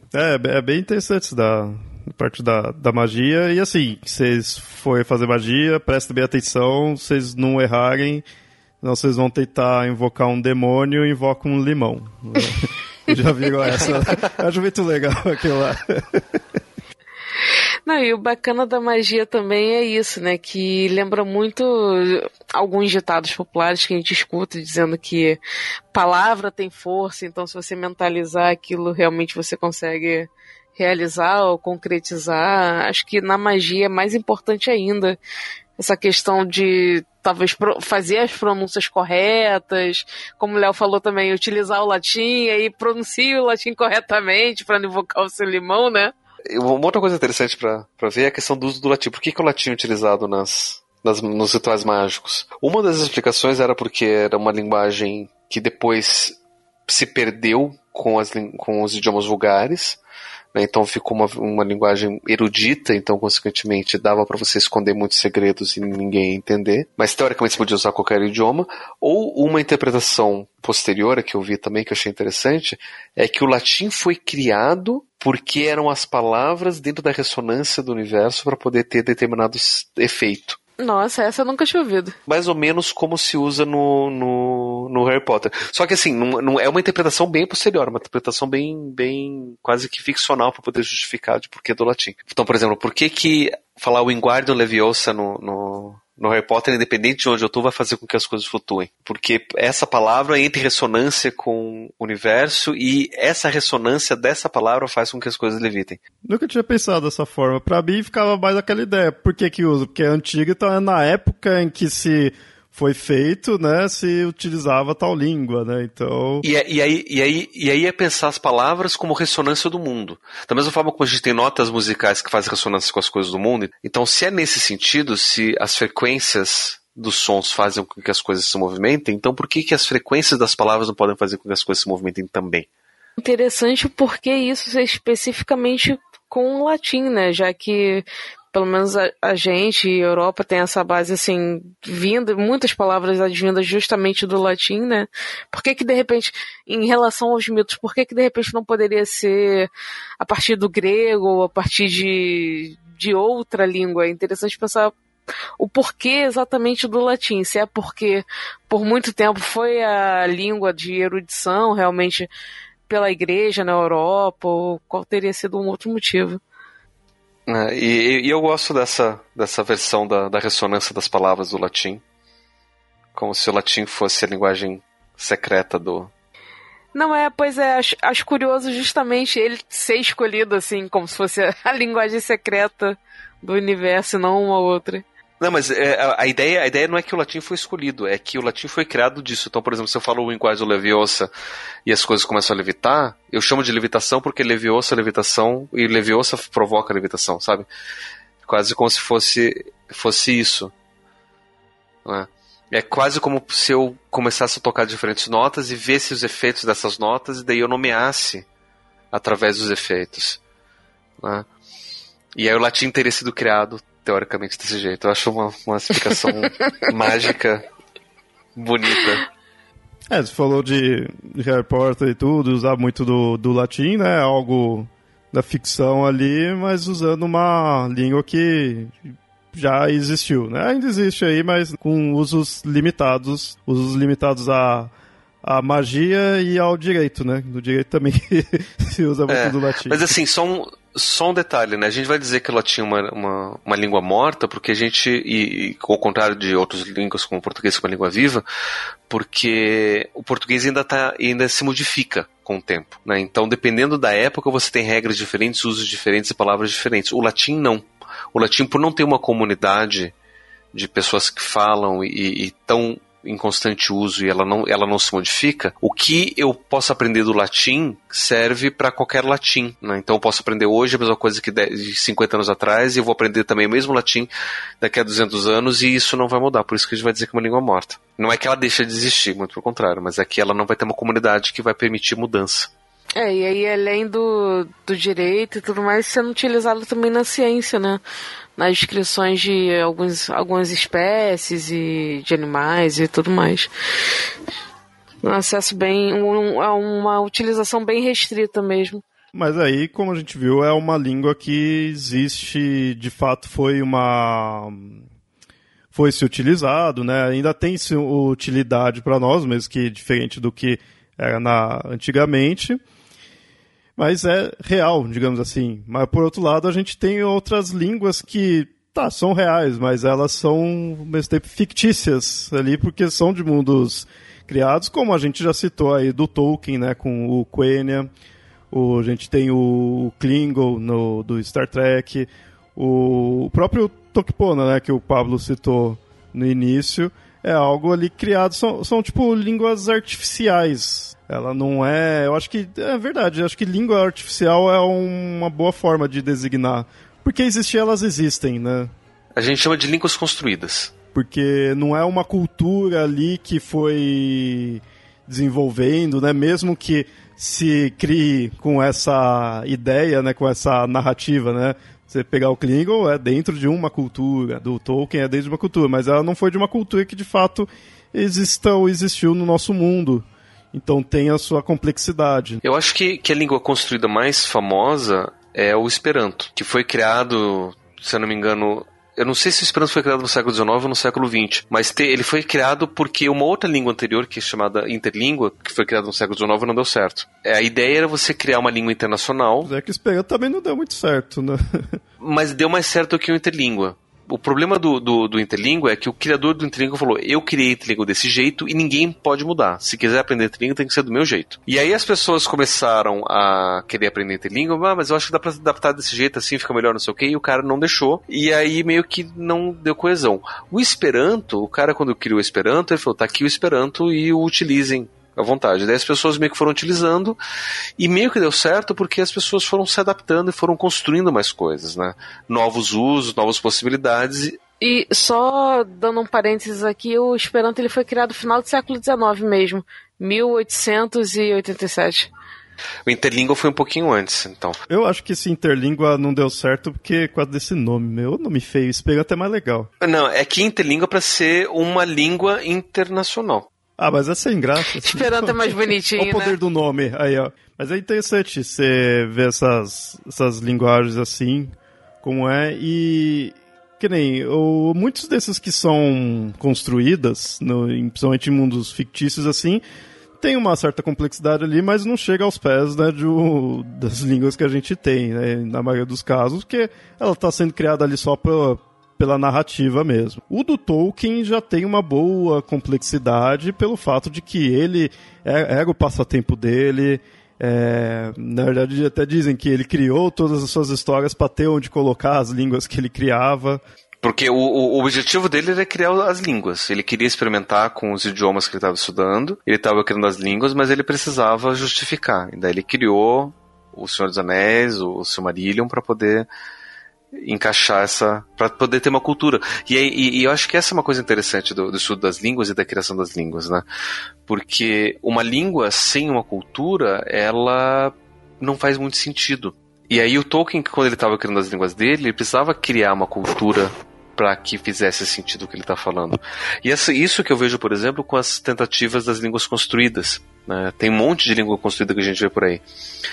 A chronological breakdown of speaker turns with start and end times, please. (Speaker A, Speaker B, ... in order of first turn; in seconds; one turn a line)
Speaker A: 0.1-8.2
Speaker A: 8.8-16.4
Speaker B: 17.9-25.4
Speaker B: 25.9-35.2
Speaker B: 35.8-46.1
Speaker C: 46.5-60.0
Speaker C: 60.5-80.6
Speaker B: 80.8-82.1
Speaker C: 82.3-106.0
Speaker A: 106.2-116.5
Speaker C: 116.4-132.7
Speaker B: 133.2-154.9
Speaker B: 155.6-162.3
Speaker B: 162.9-166.4
Speaker C: 167.5-172.0
Speaker C: 173.1-176.1
Speaker B: 176.9-185.0
Speaker C: 185.4-191.3
Speaker C: 191.8-197.7
Speaker C: 198.4-200.7
Speaker C: 202.0-208.5
Speaker C: 209.1-210.4
Speaker C: 211.2-211.5
Speaker C: 212.3-217.6
Speaker C: 218.6-219.2
Speaker A: 220.1-234.9
Speaker A: 235.4-240.1
Speaker C: 239.3-248.4
Speaker C: 249.1-260.1
Speaker C: 260.7-274.3
Speaker C: 274.8-282.7
Speaker B: 283.1-288.0
Speaker B: 288.6-293.7
Speaker B: 295.2-299.0
Speaker A: 299.3-305.0
Speaker A: 305.9-312.8
Speaker A: 314.0-328.1
Speaker A: 328.7-348.9
Speaker C: 349.4-350.9
Speaker A: 351.1-372.6
Speaker C: 372.6-389.7
Speaker A: 389.6-392.0
Speaker C: 392.2-417.4
Speaker C: 418.0-424.6
Speaker B: 424.8-432.3
Speaker C: 433.1-434.8
Speaker A: 434.9-439.9
Speaker C: 440.0-443.7
Speaker A: 444.0-451.7
Speaker B: 445.0-446.6
Speaker A: 452.2-459.8
Speaker A: 460.4-483.8
Speaker C: 484.2-496.5
Speaker C: 497.3-503.8
Speaker C: 504.5-522.8